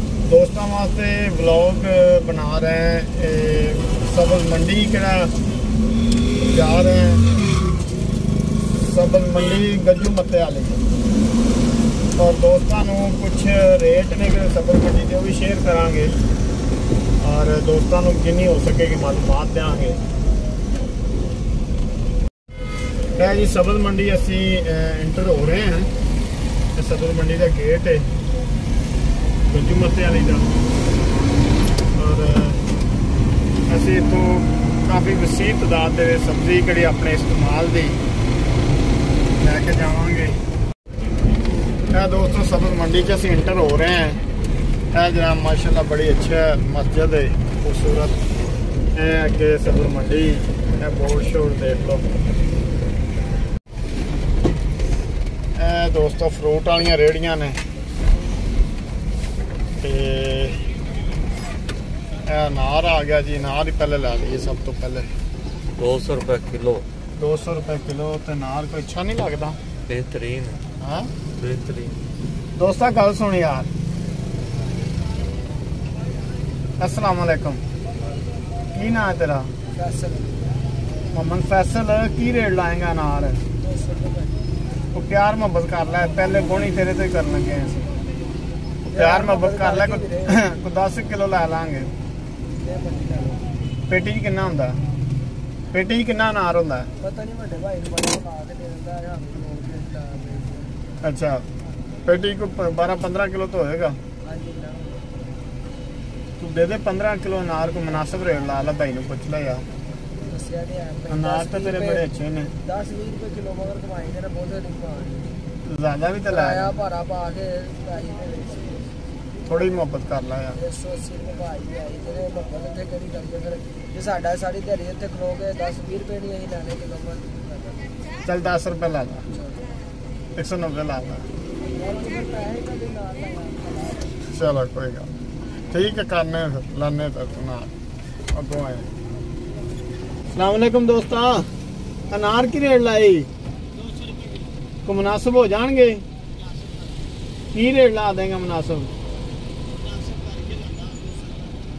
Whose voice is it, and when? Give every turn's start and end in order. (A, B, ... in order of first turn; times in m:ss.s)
0:00.2-0:05.3 A
0:06.5-0:07.2 A
0:08.8-0:10.8 A
0:12.2-0:16.1 A
0:17.2-0:20.0 A
0:23.2-0:25.9 A
0:26.7-0:28.1 A
0:29.5-0:30.5 A
0:31.9-0:32.6 A
0:33.7-0:38.0 A
0:39.4-0:40.4 A
0:41.9-0:44.2 A
0:44.9-0:48.2 A
0:48.9-0:52.0 A
0:55.6-0:57.6 A
0:59.8-1:00.6 A
1:02.2-1:05.1 A
1:05.8-1:06.8 B
1:07.2-1:09.6 A
1:09.9-1:10.6 B
1:10.8-1:11.1 A
1:11.4-1:12.0 B
1:12.6-1:13.7 A
1:16.8-1:17.6 A
1:18.7-1:19.5 A
1:19.7-1:20.5 C
1:21.1-1:23.4 A
1:23.6-1:24.4 C
1:24.9-1:27.8 A
1:28.9-1:30.4 C
1:28.9-1:31.9 A
1:32.6-1:33.4 C
1:33.9-1:34.8 A
1:35.7-1:36.9 A
1:37.0-1:40.8 C
1:41.0-1:41.4 A
1:42.0-1:44.0 A
1:44.2-1:45.1 C
1:46.4-1:49.6 A
1:50.2-1:55.4 C
1:51.1-1:52.5 A
1:55.6-1:56.7 A
1:56.3-1:58.9 C
1:59.5-2:00.6 A
2:00.5-2:07.8 C
2:08.2-2:09.2 A
2:09.3-2:09.7 C
2:10.4-2:11.3 A
2:11.7-2:14.2 C
2:14.3-2:15.1 A
2:15.7-2:17.7 A
2:18.3-2:18.9 A
2:20.3-2:21.5 A
2:22.1-2:23.3 A
2:23.7-2:24.6 C
2:24.8-2:26.0 A
2:26.3-2:27.1 C
2:27.5-2:28.9 A
2:29.7-2:31.6 C